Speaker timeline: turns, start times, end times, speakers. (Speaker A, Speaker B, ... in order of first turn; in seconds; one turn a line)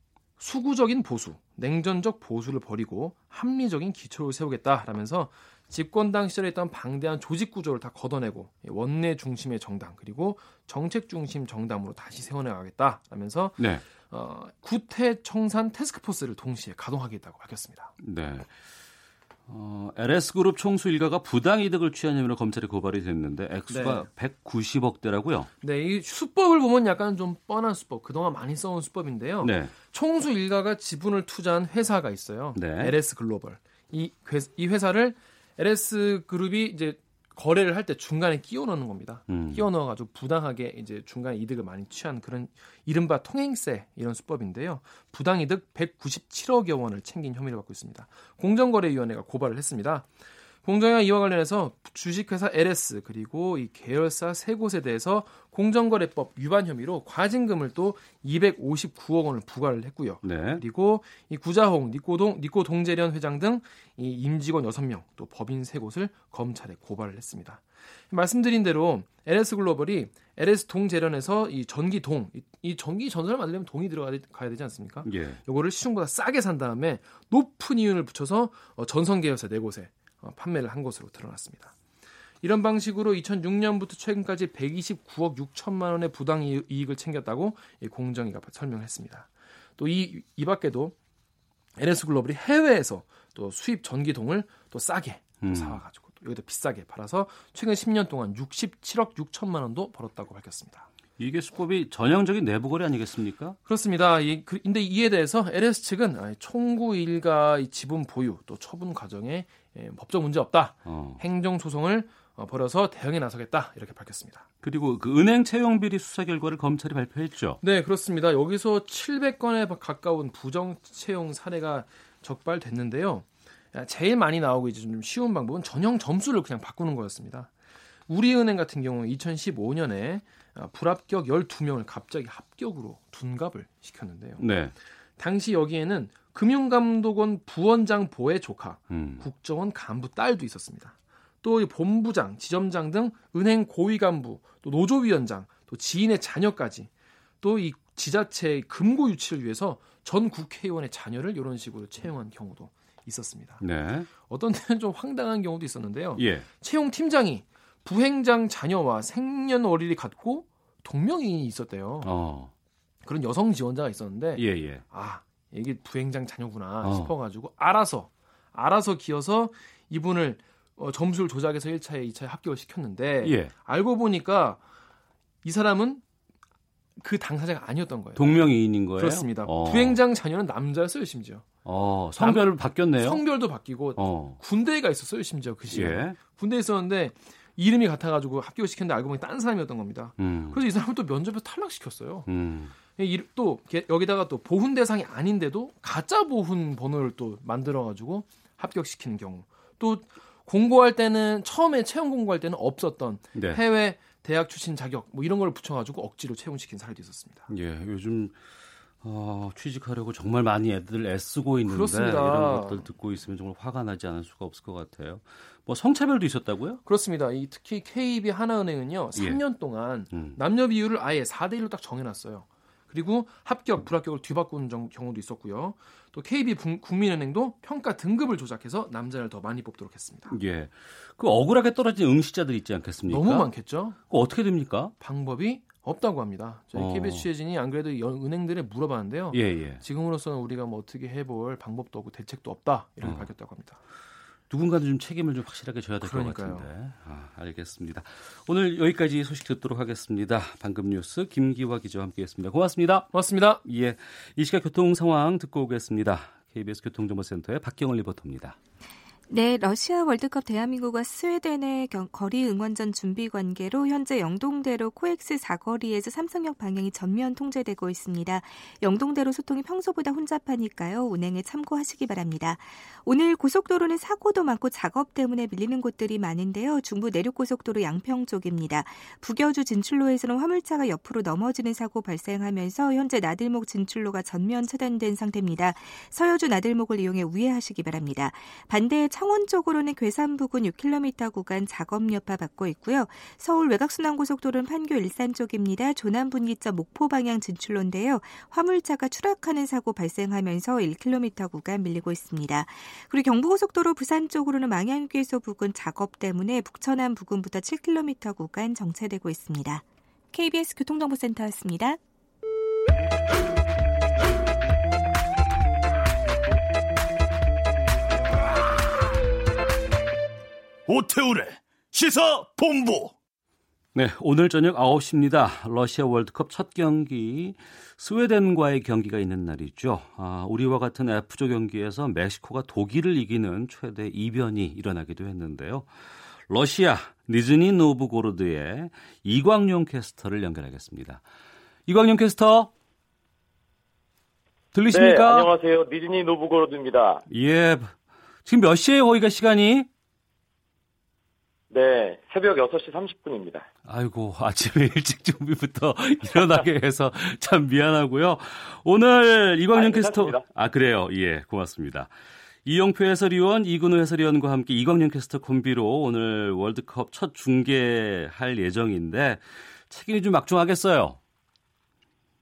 Speaker A: 0.4-17.9
Speaker B: 13.6-13.8
Speaker B: 18.0-18.5
Speaker B: 19.5-25.5
Speaker A: 23.7-24.1
Speaker A: 25.6-50.1
Speaker B: 29.4-29.7
Speaker B: 32.5-33.0
Speaker B: 39.3-39.6
Speaker A: 50.6-81.8
Speaker B: 60.2-60.6
Speaker B: 75.0-75.4
Speaker A: 82.4-91.0
Speaker A: 91.8-100.9
Speaker B: 95.4-95.8
Speaker B: 101.2-103.6
Speaker A: 103.7-114.5
Speaker B: 110.9-111.2
Speaker B: 114.6-117.6
Speaker A: 117.6-127.5
Speaker A: 128.1-134.4
Speaker B: 134.4-134.7
Speaker A: 135.2-146.9
Speaker B: 138.9-139.2
Speaker A: 147.4-153.6
Speaker B: 153.6-154.1
Speaker A: 154.3-162.1
Speaker B: 156.2-156.5
Speaker B: 162.0-162.5
Speaker A: 163.1-174.6
Speaker B: 164.4-164.8
Speaker B: 166.8-167.1
Speaker B: 173.2-173.5
Speaker A: 175.4-176.0
Speaker A: 177.0-181.5
Speaker B: 178.2-180.0
Speaker B: 181.7-183.2
Speaker A: 182.2-192.4
Speaker B: 184.0-184.4
Speaker B: 185.7-186.2
Speaker B: 190.2-190.6
Speaker B: 192.3-192.7
Speaker A: 192.9-207.5
Speaker B: 203.3-203.6
Speaker B: 207.5-208.4
Speaker B: 209.0-216.8
Speaker A: 211.7-212.8
Speaker A: 216.9-230.4
Speaker B: 219.2-219.4
Speaker B: 220.1-220.4
Speaker B: 230.3-234.9
Speaker A: 233.1-234.0
Speaker A: 235.0-243.8
Speaker B: 236.7-237.3
Speaker B: 239.3-239.8
Speaker B: 243.0-243.3
Speaker B: 244.5-258.6
Speaker A: 246.0-246.7
Speaker A: 253.1-253.6
Speaker C: 259.3-312.0
Speaker D: 320.9-323.1
Speaker B: 323.9-341.2
Speaker B: 341.9-342.7
Speaker B: 344.7-345.5
Speaker E: 344.9-347.2
Speaker B: 347.3-349.9
Speaker E: 351.7-353.7
Speaker B: 353.9-362.1
Speaker E: 359.7-360.4
Speaker B: 362.6-371.2